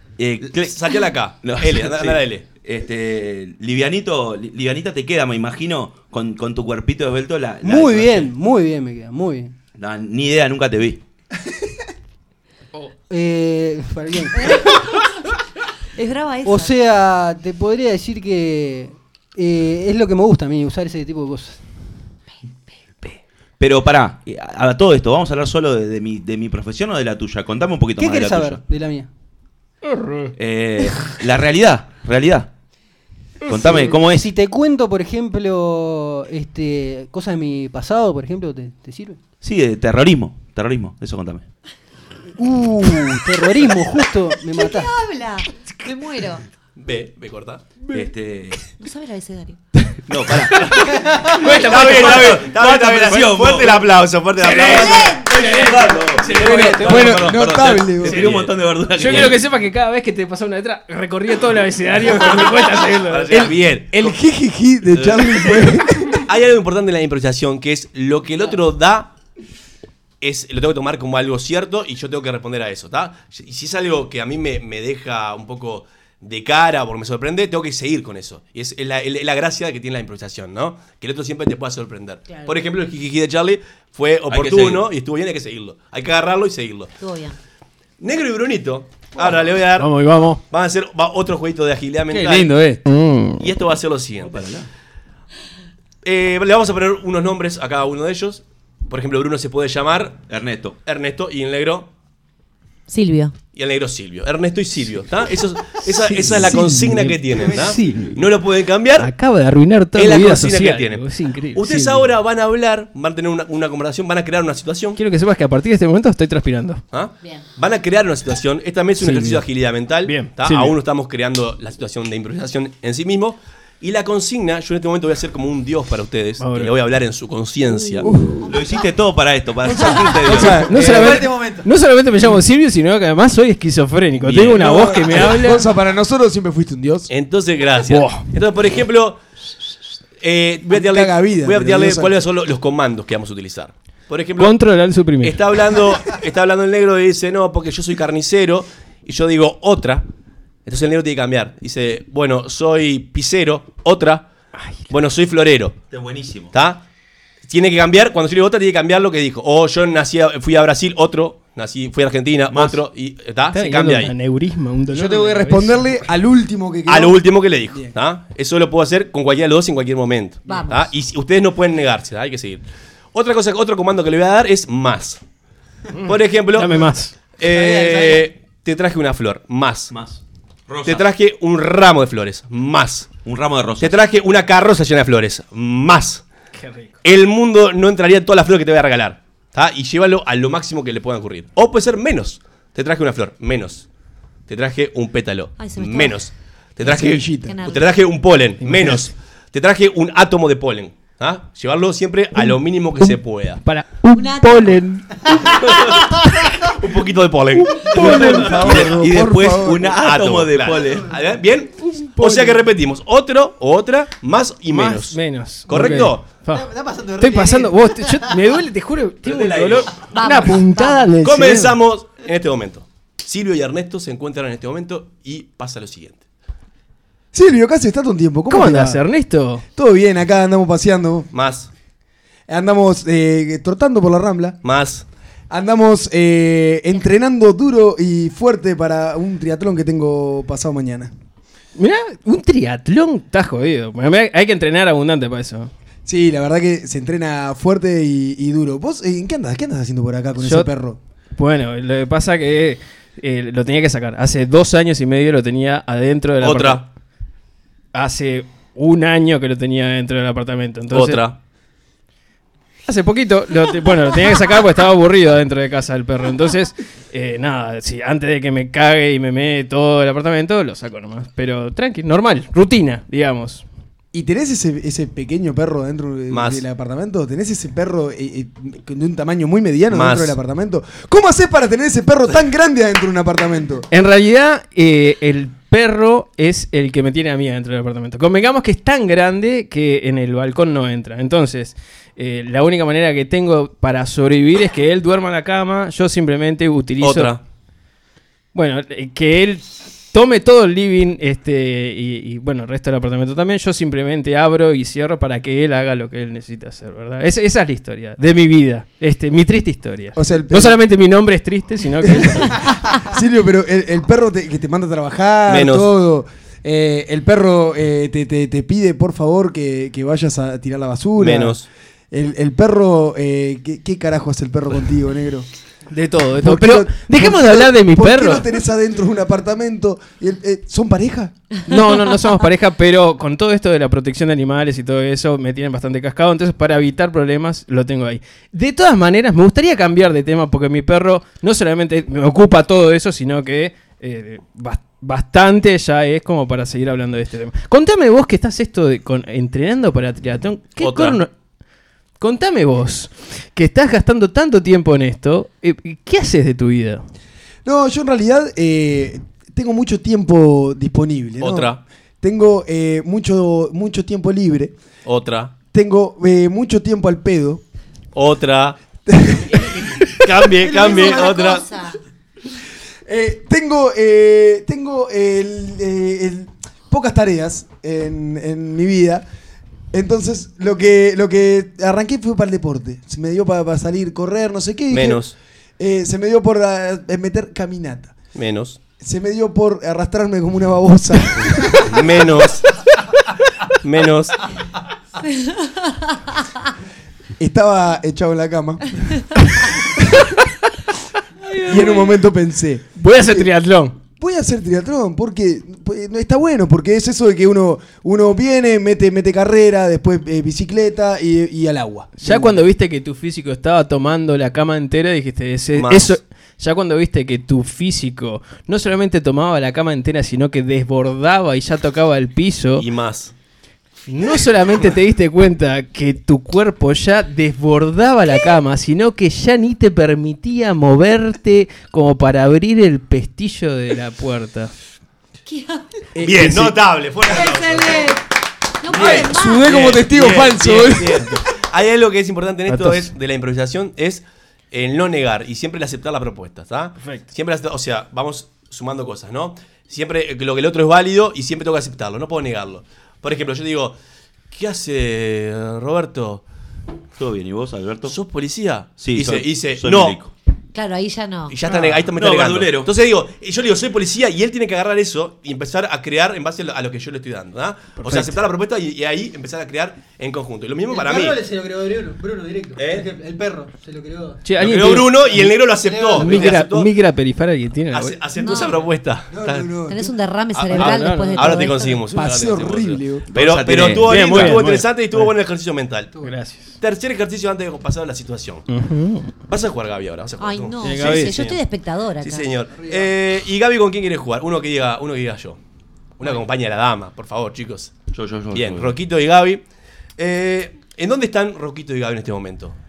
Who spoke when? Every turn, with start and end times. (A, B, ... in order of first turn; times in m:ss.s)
0:00.2-0:08.3 A
0:00.4-0:02.4 B
0:07.6-0:09.5 C
0:09.8-0:11.0 A
0:13.1-0:14.7 C
0:14.4-0:15.1 D
0:16.0-0:16.8 D
0:16.4-0:21.6 C
0:23.6-0:28.6 A
0:28.0-0:29.1 C
0:29.9-0:30.3 E
0:30.4-0:32.5 A
0:33.5-0:34.3 A
0:33.5-0:39.2 C
0:39.4-0:41.5 A
0:42.4-0:44.9 C
0:44.6-0:46.4 D
0:46.8-0:47.7 B
0:47.9-0:48.6 A
0:48.8-0:49.6 D
0:50.1-0:50.8 A
0:50.9-0:51.4 C
0:51.4-0:53.9 A
0:51.4-0:57.2 B
0:51.4-0:52.4 E
0:54.4-0:57.1 E
0:54.4-0:59.4 A
0:54.6-0:55.4 D
0:56.3-0:58.2 F
0:58.0-0:58.5 B
0:58.1-1:03.5 E
1:02.1-1:04.2 B
1:03.3-1:06.2 F
1:04.9-1:05.7 A
1:06.3-1:09.1 B
1:10.2-1:26.9 B
1:22.3-1:22.6 D
1:24.3-1:24.9 A
1:27.0-1:27.4 D
1:28.0-1:30.0 B
1:29.8-1:30.4 E
1:30.5-1:32.6 B
1:32.1-1:32.8 F
1:32.8-1:33.4 E
1:33.4-1:34.4 B
1:34.2-1:34.7 A
1:36.0-1:40.2 B
1:40.3-1:40.8 A
1:40.8-1:41.9 B
1:42.9-1:43.4 D
1:43.5-1:49.1 B
1:46.1-1:48.0 E
1:46.2-1:47.1 F
1:47.5-1:47.7 C
1:49.0-1:52.2 E
1:49.9-1:55.0 B
1:55.0-1:56.8 E
1:56.9-2:08.1 B
1:59.0-1:59.5 E
2:00.0-2:00.8 E
2:06.4-2:06.8 E
2:08.0-2:08.5 F
2:08.5-2:10.7 A
2:09.6-2:11.3 F
2:10.5-2:15.7 E
2:10.7-2:11.6 C
2:14.3-2:14.5 A
2:14.3-2:15.3 B
2:14.6-2:17.1 F
2:17.1-2:19.2 B
2:17.8-2:18.3 E
2:20.2-2:24.6 B
2:20.7-2:22.1 F
2:24.4-2:25.4 E
2:25.2-2:30.1 B
2:30.7-2:34.3 B
2:34.6-2:34.9 E
2:34.9-2:35.8 B
2:35.9-2:36.5 A
2:36.5-2:36.8 B
2:37.5-2:44.1 B
2:42.5-2:42.8 A
2:43.5-2:45.8 E
2:44.9-2:47.9 F
2:46.9-2:52.6 B
2:50.5-2:50.9 D
2:53.1-2:55.2 B
2:56.0-2:57.2 E
2:56.0-2:59.9 B
2:57.4-2:58.3 C
2:59.9-3:01.1 A
3:00.8-3:03.1 B
3:03.2-3:04.0 A
3:03.8-3:06.2 B
3:06.6-3:07.0 E
3:07.0-3:13.9 B
3:14.5-3:23.6 B
3:15.6-3:16.3 D
3:16.8-3:17.6 F
3:17.4-3:17.9 D
3:18.6-3:19.1 E
3:22.4-3:25.6 E
3:24.2-3:24.7 D
3:25.7-3:36.3 B
3:26.1-3:26.4 E
3:27.7-3:29.4 E
3:28.0-3:31.1 A
3:28.2-3:29.4 F
3:32.0-3:32.6 E
3:34.7-3:41.8 E
3:36.5-3:38.3 C
3:39.3-3:39.8 A
3:39.3-3:39.9 B
3:40.1-3:41.0 D
3:41.2-3:46.2 B
3:47.3-3:49.0 F
3:48.5-3:49.6 E
3:49.8-3:51.3 F
3:51.3-3:51.7 B
3:52.5-3:54.6 F
3:54.6-3:55.1 B
3:55.5-4:01.1 F
4:01.8-4:05.7 E
4:06.1-4:11.0 F
4:10.4-4:10.7 E
4:11.4-4:16.9 E
4:16.4-4:16.9 B
4:17.9-4:21.3 E
4:20.9-4:21.4 B
4:22.9-4:33.7 E
4:34.1-4:43.9 F
4:36.3-4:36.6 B
4:39.9-4:40.4 B
4:43.9-4:57.4 E
4:57.0-4:57.4 B
4:58.5-5:12.7 E
5:10.2-5:10.8 F
5:12.1-5:21.6 F
5:15.5-5:15.9 B
5:21.2-5:21.7 B
5:22.1-5:25.5 F
5:25.9-5:28.5 E
5:26.4-5:31.4 F
5:31.7-5:51.3 E
5:50.8-5:51.2 B
5:52.2-5:57.0 E
5:57.6-6:04.8 F
6:01.4-6:01.8 B
6:05.0-6:05.5 B
6:05.7-6:07.6 F
6:08.1-6:08.8 B
6:09.1-6:11.2 F
6:10.1-6:11.7 B
6:10.7-6:12.0 D
6:13.1-6:19.2 F
6:19.9-6:25.2 F
6:24.9-6:25.4 B
6:25.8-6:28.2 F
6:28.4-6:28.8 B
6:29.0-6:32.0 F
6:31.8-6:32.7 B
6:33.8-6:34.4 B
6:37.4-6:39.7 F
6:41.4-6:42.1 E
6:41.6-6:43.5 F
6:43.0-6:44.0 E
6:44.2-6:52.7 F
6:52.2-7:02.8 E
6:55.7-6:56.2 B
7:02.8-7:03.3 B
7:04.1-7:14.7 E
7:15.5-7:15.9 D
7:16.2-7:16.8 F
7:16.2-7:18.2 B
7:17.3-7:18.2 D
7:18.8-7:19.7 D
7:18.9-7:34.0 B
7:18.9-7:21.3 F
7:22.7-7:23.1 E
7:34.5-7:36.4 B
7:37.2-7:38.2 A
7:38.0-7:40.2 B
7:39.0-7:40.3 A
7:40.7-7:41.6 D
7:41.5-7:51.4 B
7:41.7-7:42.9 A
7:48.0-7:48.4 E
7:50.9-7:54.4 C
7:52.8-7:53.1 B
7:54.4-7:55.5 E
7:54.6-7:56.9 B
7:55.6-7:56.5 C
7:56.2-7:58.2 E
7:57.9-7:59.8 B
7:58.4-7:58.9 D
7:59.3-8:00.1 F
7:59.9-8:02.0 D
8:00.5-8:06.1 B
8:00.7-8:01.7 E
8:02.1-8:03.2 F
8:03.3-8:04.6 A
8:03.9-8:05.3 E
8:06.2-8:06.7 E
8:06.8-8:08.7 B
8:08.7-8:09.4 E
8:09.5-8:11.6 B
8:10.4-8:12.5 D
8:10.8-8:11.4 E
8:12.2-8:15.6 B
8:12.7-8:13.1 C
8:16.2-8:17.9 B
8:18.1-8:19.0 A
8:18.5-8:19.6 B
8:20.2-8:22.8 B